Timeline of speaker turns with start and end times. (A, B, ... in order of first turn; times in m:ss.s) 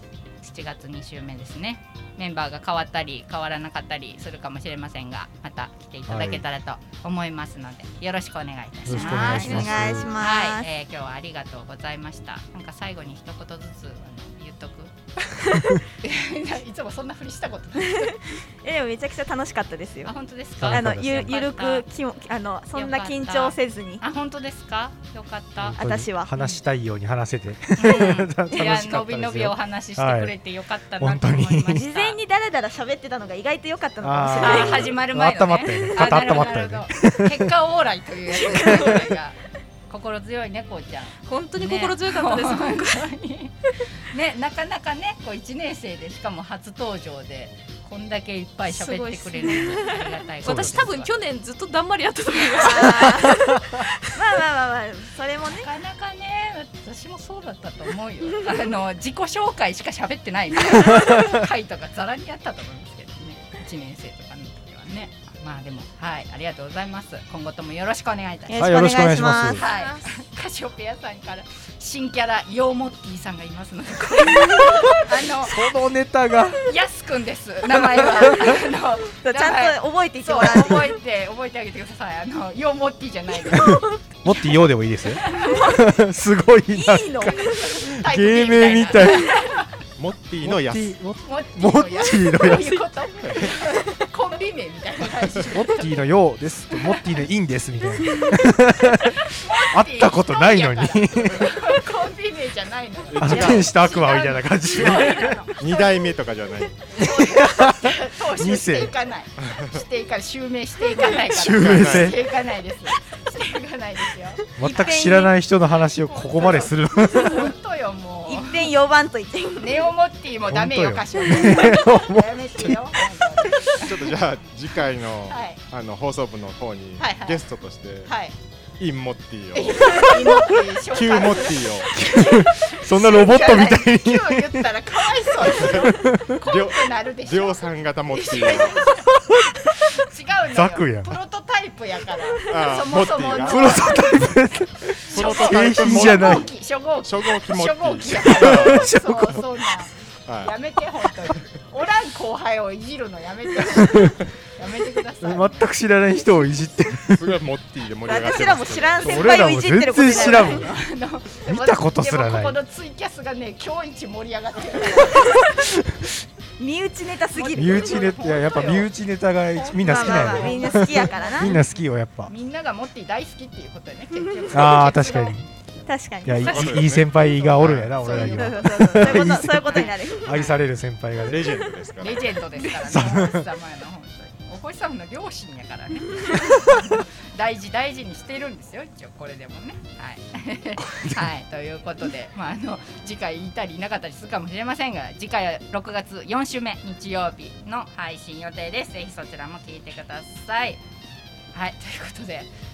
0:00.4-0:15.0 A
0:06.1-0:06.4 B
0:08.8-0:10.1 B
0:08.9-0:10.7 C
0:09.4-0:09.7 D
0:16.0-0:18.3 A
0:17.9-0:24.0 C
0:20.0-0:21.9 A
0:20.6-0:21.4 B
0:22.7-0:25.8 A
0:25.6-0:30.3 B
0:25.8-0:26.3 C
0:26.4-0:26.6 A
0:27.8-0:32.2 A
0:31.0-0:31.8 B
0:31.7-0:35.0 C
0:34.0-0:37.5 B
0:34.4-0:39.4 A
0:35.7-0:36.3 C
0:38.5-0:39.1 B
0:39.9-0:51.1 A
0:41.2-0:43.1 D
0:48.7-0:53.8 D
0:50.5-0:50.8 B
0:52.6-0:55.7 C
0:55.4-1:08.7 A
1:00.9-1:01.4 B
1:08.5-1:09.6 C
1:08.6-1:09.6 B
1:09.5-1:15.7 A
1:09.7-1:10.1 D
1:14.3-1:16.7 B
1:16.6-1:24.0 A
1:17.8-1:18.5 B
1:19.1-1:20.9 C
1:23.5-1:29.4 B
1:25.1-1:25.7 A
1:25.4-1:25.8 C
1:26.7-1:27.6 C
1:27.2-1:29.7 A
1:30.0-1:31.0 E
1:30.4-1:33.7 B
1:31.2-1:36.0 A
1:33.2-1:33.5 E
1:35.4-1:41.9 B
1:36.7-1:37.2 A
1:38.9-1:45.9 A
1:43.1-1:43.7 E
1:43.2-1:45.4 B
1:44.8-1:47.0 E
1:46.9-1:54.4 A
1:47.0-1:48.9 B
1:49.4-1:49.8 E
1:51.0-1:52.2 B
1:51.5-1:52.1 E
1:54.6-1:57.5 B
1:54.6-1:55.3 C
1:56.0-1:58.7 A
1:58.2-1:59.9 C
1:59.6-2:04.1 A
2:00.5-2:03.9 B
2:03.8-2:08.1 E
2:05.3-2:05.6 A
2:07.0-2:07.4 A
2:08.0-2:08.3 A
2:08.8-2:10.1 E
2:09.5-2:19.1 A
2:10.9-2:12.1 E
2:11.9-2:14.7 B
2:13.4-2:13.7 C
2:15.5-2:18.9 E
2:15.7-2:16.3 B
2:19.1-2:19.8 B
2:19.6-2:24.4 A
2:20.5-2:21.2 B
2:22.4-2:23.9 E
2:23.4-2:26.5 B
2:25.0-2:35.7 A
2:25.1-2:26.5 E
2:27.0-2:29.4 E
2:28.1-2:29.6 B
2:30.2-2:30.5 E
2:33.6-2:34.1 B
2:35.2-2:37.4 B
2:37.1-2:39.5 E
2:38.1-2:40.7 C
2:39.0-2:40.7 B
2:40.0-2:45.5 A
2:41.4-2:42.6 B
2:45.0-2:46.1 B
2:46.6-2:48.0 C
2:47.3-2:48.9 A
2:47.6-2:52.3 B
2:49.5-2:55.3 A
2:49.8-2:51.6 C
2:54.5-2:55.4 B
2:55.8-2:56.6 C
2:56.2-3:01.5 B
2:56.4-2:58.0 E
2:57.4-3:00.6 A
2:58.1-3:00.4 C
3:01.2-3:02.4 E
3:02.0-3:20.8 A
3:02.7-3:03.5 B
3:10.9-3:11.3 B
3:21.5-3:22.5 A